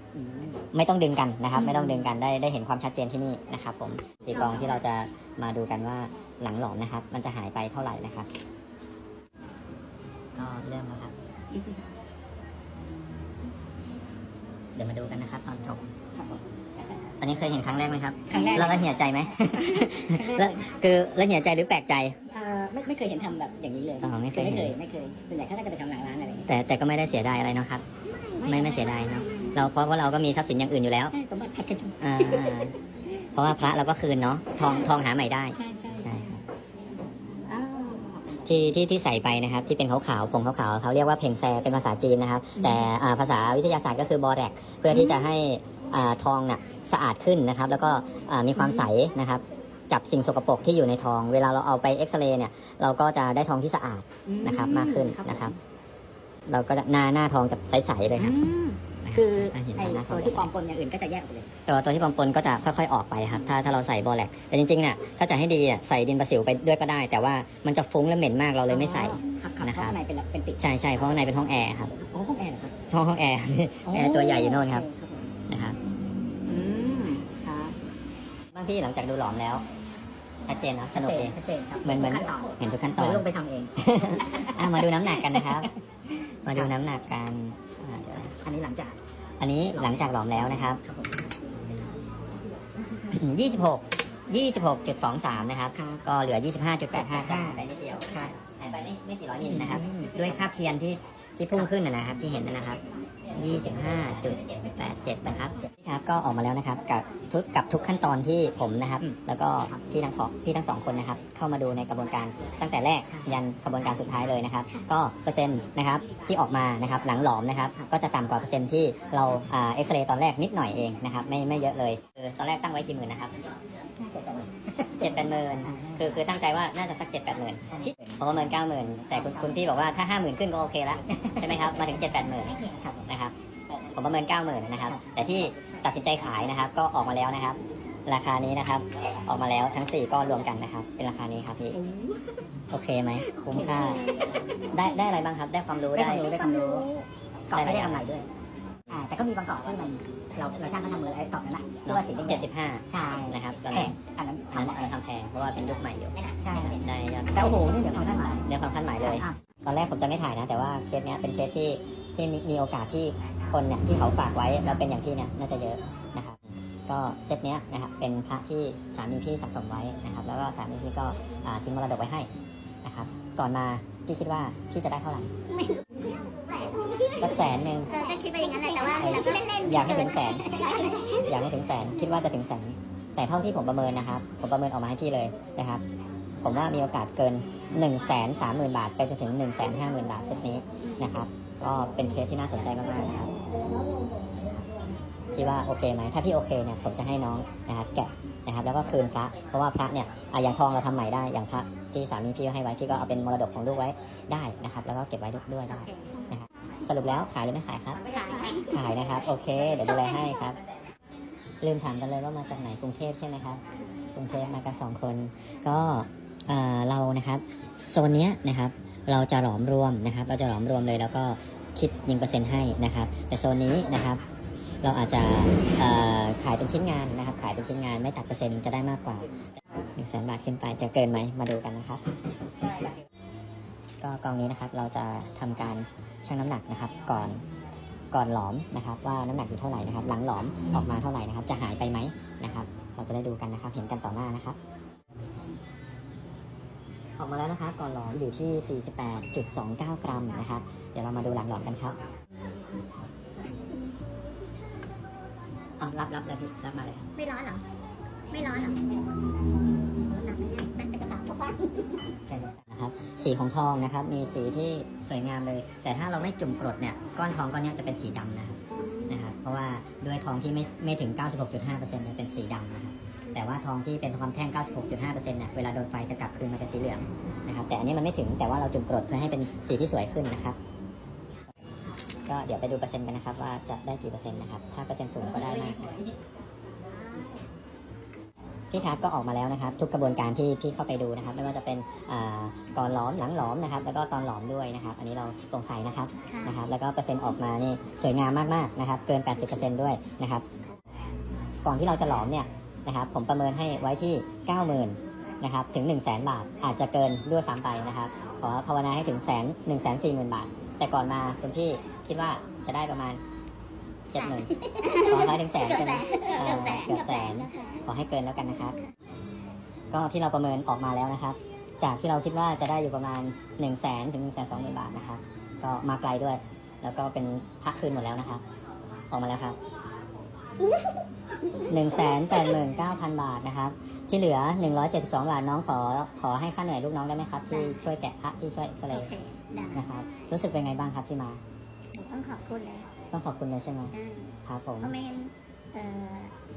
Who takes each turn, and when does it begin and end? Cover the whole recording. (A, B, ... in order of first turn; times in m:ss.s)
0:00.1-0:00.6 A
0:00.7-0:08.3 B
0:01.6-0:02.0 A
0:04.3-0:04.8 A
0:10.3-0:11.1 B
0:11.5-0:11.8 A
0:14.8-0:15.9 B
0:16.1-0:16.4 A
0:17.2-0:22.2 B
0:18.3-0:18.9 A
0:19.6-0:20.6 A
0:22.3-0:26.5 A
0:24.0-0:24.7 B
0:26.5-0:27.8 B
0:28.2-0:29.2 C
0:28.2-0:29.4 A
0:28.4-0:31.1 B
0:31.1-0:32.7 A
0:32.0-0:32.7 B
0:33.4-0:36.4 B
0:34.6-0:34.9 A
0:35.6-0:36.4 A
0:37.4-0:38.7 A
0:38.4-0:55.5 B
0:42.6-0:42.9 A
0:44.9-0:45.3 A
0:48.5-0:48.9 A
0:54.2-0:55.6 A
0:56.5-0:58.3 B
0:58.2-1:01.5 A
0:59.0-1:00.5 B
1:01.7-1:09.9 B
1:08.7-1:10.6 A
1:10.6-1:11.9 B
1:12.0-1:12.7 A
1:12.9-1:14.8 B
1:13.8-1:15.3 A
1:15.5-1:15.8 B
1:16.4-1:17.8 A
1:18.5-1:19.6 B
1:20.4-1:23.2 B
1:20.9-1:25.7 A
1:23.8-1:25.7 B
1:26.4-1:28.3 B
1:26.5-1:26.7 A
1:28.0-1:29.0 A
1:29.4-1:30.8 B
1:29.7-1:31.3 A
1:33.1-2:03.3 B
1:35.7-1:36.0 A
1:36.9-1:38.3 A
1:39.5-1:40.4 A
1:53.0-1:53.4 A
2:04.0-2:06.2 A
2:05.0-2:12.6 B
2:07.7-2:08.5 A
2:09.1-2:09.7 A
2:11.1-2:11.5 A
2:12.5-2:13.0 A
2:13.1-2:13.3 B
2:13.9-2:21.8 B
2:14.8-2:16.5 A
2:21.7-2:22.2 A
2:22.7-2:24.1 B
2:23.4-2:24.3 A
2:24.7-2:26.3 B
2:25.9-2:28.3 A
2:27.5-2:28.0 B
2:28.9-2:34.9 A
2:31.8-2:33.9 B
2:34.5-2:37.6 B
2:36.3-2:38.5 A
2:38.4-2:52.3 B
2:39.0-2:39.4 A
2:52.8-2:55.3 B
2:55.5-3:01.2 C
2:57.2-2:57.9 B
2:59.0-3:00.5 B
3:01.2-3:05.8 B
3:06.4-3:13.3 B
3:15.3-3:28.0 B
3:25.7-3:26.3 C
3:28.0-3:28.7 C
3:28.7-3:30.6 B
3:31.6-3:33.6 B
3:34.1-3:44.2 B
3:44.8-3:49.4 B
3:49.9-3:52.0 B
3:54.0-3:57.4 B
3:58.1-4:04.6 B
4:07.2-4:12.0 B
4:15.8-4:17.1 B
4:17.2-4:17.6 C
4:18.3-4:19.0 C
4:20.1-4:21.7 C
4:22.4-4:40.6 B
4:28.8-4:29.1 C
4:42.3-4:46.0 B
4:47.1-4:47.4 C
4:48.7-5:00.4 B
4:56.3-4:56.6 C
5:01.6-5:13.2 B
5:14.1-5:14.5 B
5:14.1-5:17.9 C
5:15.1-5:18.8 B
5:19.9-5:28.4 B
5:29.1-5:29.6 B
5:30.7-5:31.0 C
5:31.7-5:39.1 B
5:37.5-5:37.8 C
5:38.9-5:39.9 C
5:39.7-5:41.4 B
5:42.0-5:42.9 C
5:43.1-5:44.9 B
5:43.9-5:46.3 C